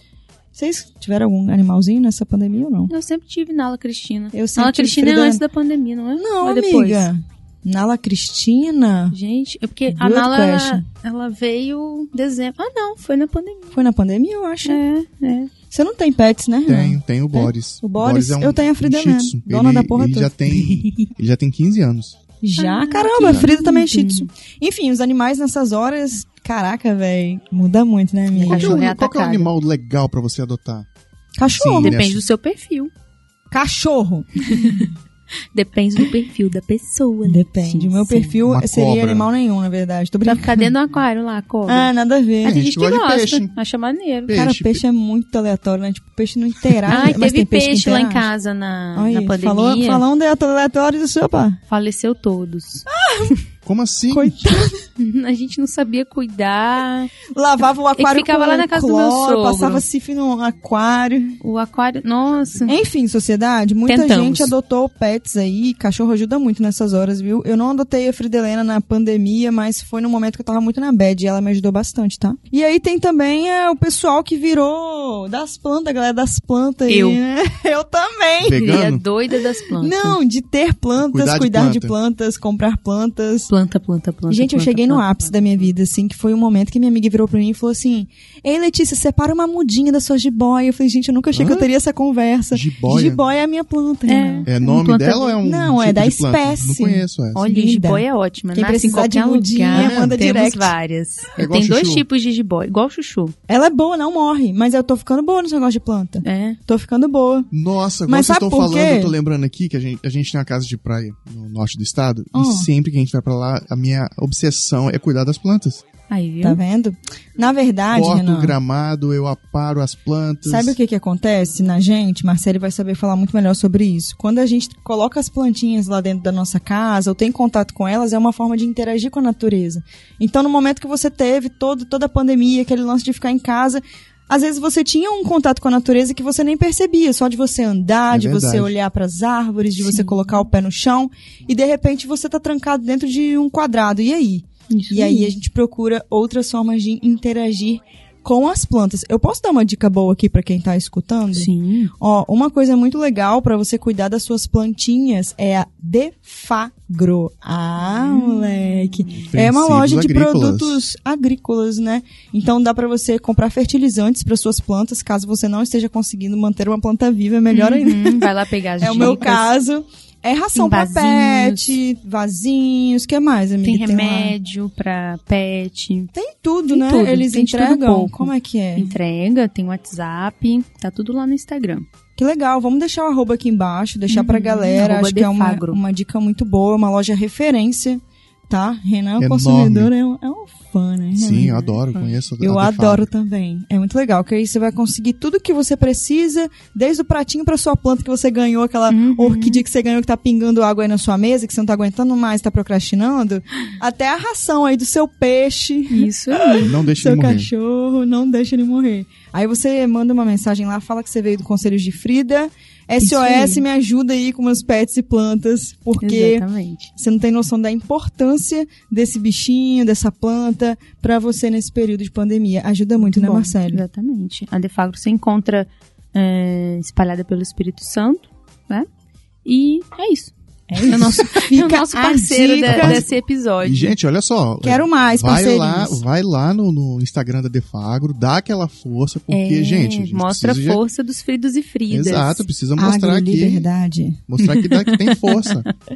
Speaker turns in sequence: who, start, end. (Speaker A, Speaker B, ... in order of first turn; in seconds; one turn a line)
Speaker A: 0.5-2.9
Speaker B: 2.9-7.1
Speaker A: 4.3-5.4
Speaker A: 6.2-9.2
Speaker B: 9.1-13.7
Speaker A: 9.9-10.8
Speaker A: 13.7-14.8
Speaker B: 14.7-15.5
Speaker A: 15.7-20.5
Speaker C: 16.7-22.2
Speaker B: 20.5-21.1
Speaker A: 22.4-28.8
Speaker B: 22.6-24.3
Speaker C: 23.2-23.5
Speaker B: 28.3-29.5
Speaker C: 28.5-30.9
Speaker A: 31.4-32.0
Speaker C: 31.6-32.2
Speaker B: 31.8-32.9
Speaker A: 33.5-34.8
Speaker B: 34.4-34.9
Speaker B: 35.5-38.4
Speaker A: 37.2-40.7
Speaker C: 38.4-39.3
Speaker B: 40.2-44.3
Speaker A: 41.7-42.6
Speaker C: 42.5-43.5
Speaker C: 44.3-44.8
Speaker A: 44.3-48.3
Speaker B: 46.9-50.0
Speaker A: 49.0-51.6
Speaker B: 51.7-52.9
Speaker A: 52.9-53.4
Speaker C: 53.6-54.3
Speaker A: 54.1-54.8
Speaker B: 55.0-57.1
Speaker A: 57.4-61.4
Speaker B: 58.0-59.9
Speaker B: 61.4-62.8
Speaker A: 62.7-78.6
Speaker B: 63.9-64.5
Speaker B: 76.9-77.2
Speaker C: 78.4-79.0
Speaker B: 78.5-80.2
Speaker A: 79.8-83.5
Speaker C: 81.0-82.0
Speaker B: 83.5-85.7
Speaker A: 84.3-94.5
Speaker C: 91.3-91.7
Speaker C: 92.5-93.2
Speaker B: 94.1-95.4
Speaker C: 94.5-97.4
Speaker A: 95.4-100.7
Speaker B: 97.3-103.3
Speaker C: 99.7-100.2
Speaker C: 101.4-102.0
Speaker A: 103.5-107.5
Speaker B: 106.2-106.6
Speaker C: 107.5-115.8
Speaker A: 108.1-109.1
Speaker A: 112.3-112.7
Speaker B: 116.1-116.6
Speaker A: 116.4-118.5
Speaker C: 117.9-120.8
Speaker A: 120.5-168.3
Speaker C: 138.1-138.7
Speaker B: 139.8-140.4
Speaker B: 144.7-145.3
Speaker B: 151.3-151.9
Speaker B: 157.9-159.2
Speaker C: 159.3-160.8
Speaker B: 167.5-169.5
Speaker A: 168.8-174.3
Speaker B: 170.6-171.8
Speaker B: 173.6-176.1
Speaker A: 176.1-178.9
Speaker B: 176.7-181.9
Speaker A: 182.2-191.5
Speaker B: 184.1-185.8
Speaker C: 189.2-189.9
Speaker C: 191.2-193.1
Speaker B: 191.3-192.2
Speaker A: 192.4-216.4
Speaker B: 198.9-199.6
Speaker B: 205.9-206.7
Speaker C: 206.6-207.5
Speaker B: 213.0-213.6
Speaker B: 216.0-216.9
Speaker A: 217.0-223.8
Speaker B: 223.0-228.9
Speaker B: 229.4-230.3
Speaker A: 230.7-233.1
Speaker B: 230.9-233.9
Speaker C: 232.7-240.8
Speaker A: 234.6-236.0
Speaker B: 239.3-242.5
Speaker C: 241.9-243.7
Speaker A: 242.8-244.2
Speaker C: 244.3-245.7
Speaker B: 244.4-245.7